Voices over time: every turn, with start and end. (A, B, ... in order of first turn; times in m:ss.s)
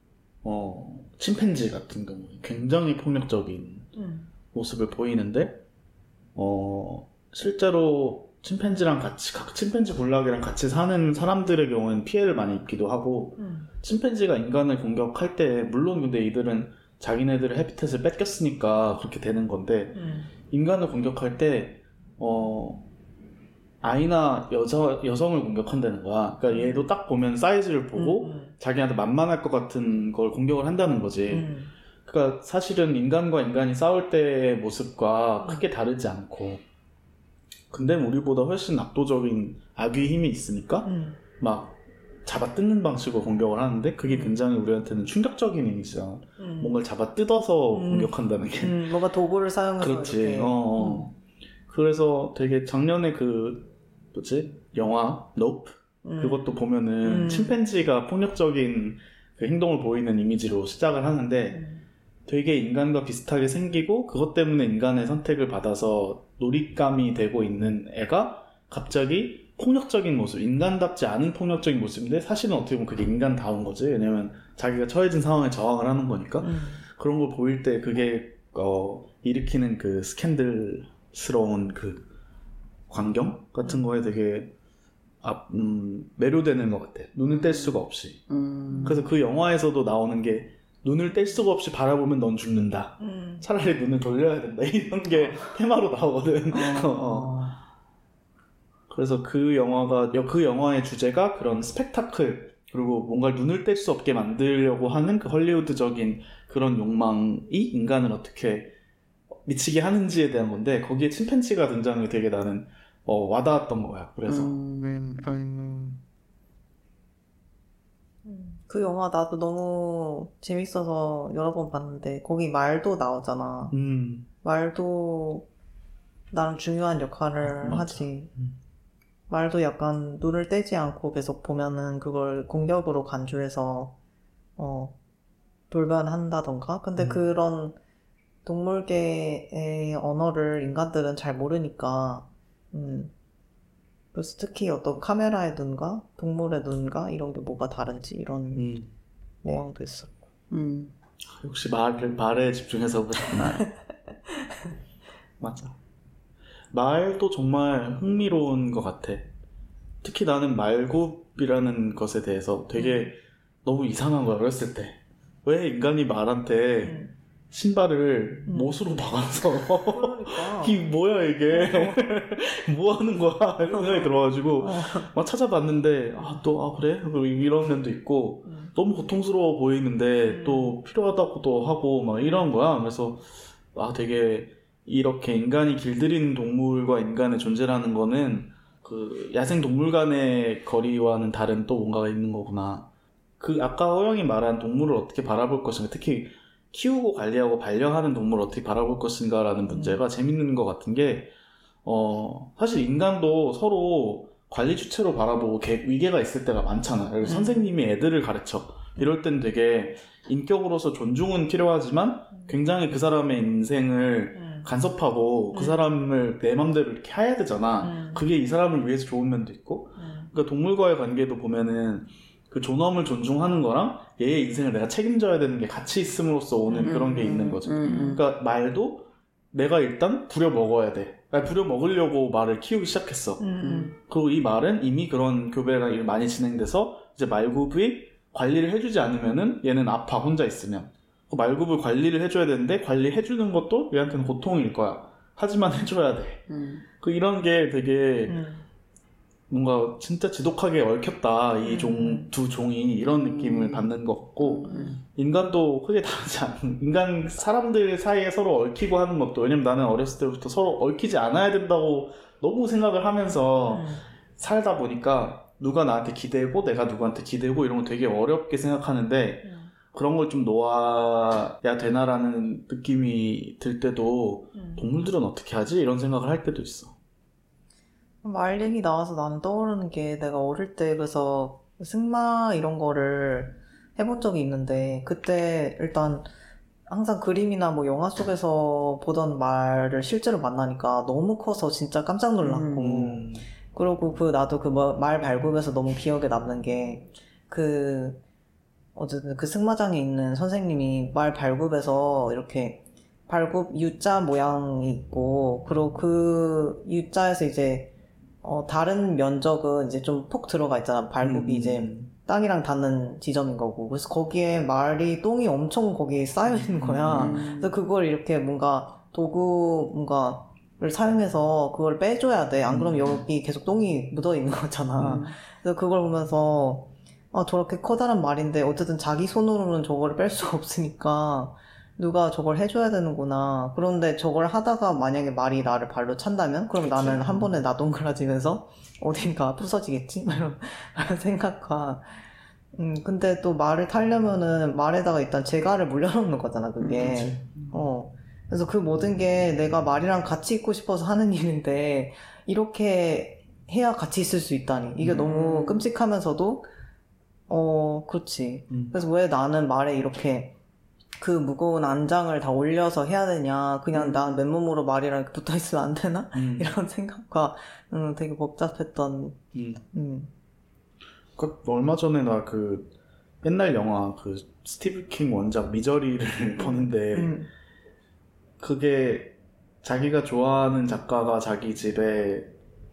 0:00.4-0:03.9 A
0:04.0-0:04.3 B
0:04.5-0:05.6 A
0:06.4-0:22.9 A
0:13.4-0:13.7 B
0:19.9-0:20.3 B
0:23.8-0:31.5 A
0:26.5-0:26.8 B
0:27.9-0:28.5 B
0:31.3-0:31.7 B
0:32.0-0:36.6 A
0:37.7-0:49.0 A
0:40.8-0:41.2 B
0:44.1-0:44.4 B
0:46.4-0:46.8 B
0:47.7-0:51.1 B
0:49.8-0:51.1 A
0:51.7-1:01.6 A
0:56.0-0:56.5 B
0:57.0-0:57.6 B
1:01.5-1:01.8 B
1:02.3-1:22.1 A
1:16.4-1:16.8 B
1:22.9-1:24.5 A
1:25.2-1:28.2 A
1:27.3-1:29.0 C
1:28.8-1:37.4 A
1:33.0-1:33.4 B
1:36.5-1:37.6 B
1:38.9-1:48.7 A
1:49.4-1:54.5 A
1:54.3-1:56.0 C
1:58.2-2:03.8 B
2:03.7-2:04.3 A
2:04.4-2:05.5 B
2:06.3-2:08.3 B
2:07.4-2:08.5 A
2:09.3-2:13.9 B
2:14.6-2:15.0 B
2:15.7-2:17.8 B
2:17.0-2:17.2 A
2:18.4-2:23.1 B
2:24.1-2:28.7 B
2:28.5-2:28.9 A
2:29.4-2:30.2 B
2:30.5-2:30.9 C
2:31.3-2:33.7 A
2:35.4-2:35.7 A
2:36.7-2:39.3 A
2:40.0-3:12.9 A
2:42.8-2:43.1 B
2:46.8-2:47.1 B
2:48.5-2:48.8 B
2:49.4-2:50.8 B
2:51.5-2:52.0 B
2:53.7-2:55.1 B
3:00.3-3:00.8 B
3:13.4-3:21.3 A
3:19.7-3:20.0 B
3:21.8-4:06.4 A
3:27.2-3:27.7 B
3:35.5-3:35.8 B
3:37.8-3:38.2 B
3:40.0-3:40.3 B
3:46.7-3:48.2 B
3:46.8-3:48.2 C
3:53.4-3:53.9 B
3:53.6-3:53.9 C
4:06.5-4:06.8 C
4:07.0-4:08.4 A
4:08.3-4:08.6 B
4:09.5-4:37.0 A
4:11.6-4:12.3 B
4:13.0-4:15.0 C
4:23.7-4:24.0 B
4:29.4-4:29.7 B
4:38.2-4:46.3 B
4:46.9-4:58.2 B
4:52.4-4:53.1 C
4:52.8-4:53.4 A
4:58.9-5:07.9 B
5:08.4-5:42.1 B
5:11.2-5:12.1 A
5:16.4-5:17.4 A
5:17.1-5:17.7 C
5:22.7-5:23.2 A
5:25.0-5:25.4 C
5:36.8-5:37.5 A
5:42.7-5:56.7 B
5:46.8-5:47.2 C
5:47.0-5:47.8 A
5:55.1-5:55.8 C
5:57.5-6:00.5 B
5:58.7-5:59.0 A
6:01.2-6:09.4 B
6:06.3-6:06.7 A
6:09.5-6:09.8 A
6:09.9-6:10.3 B
6:11.4-6:12.9 A
6:13.4-6:17.4 A
6:16.6-6:17.5 B
6:18.6-6:22.5 A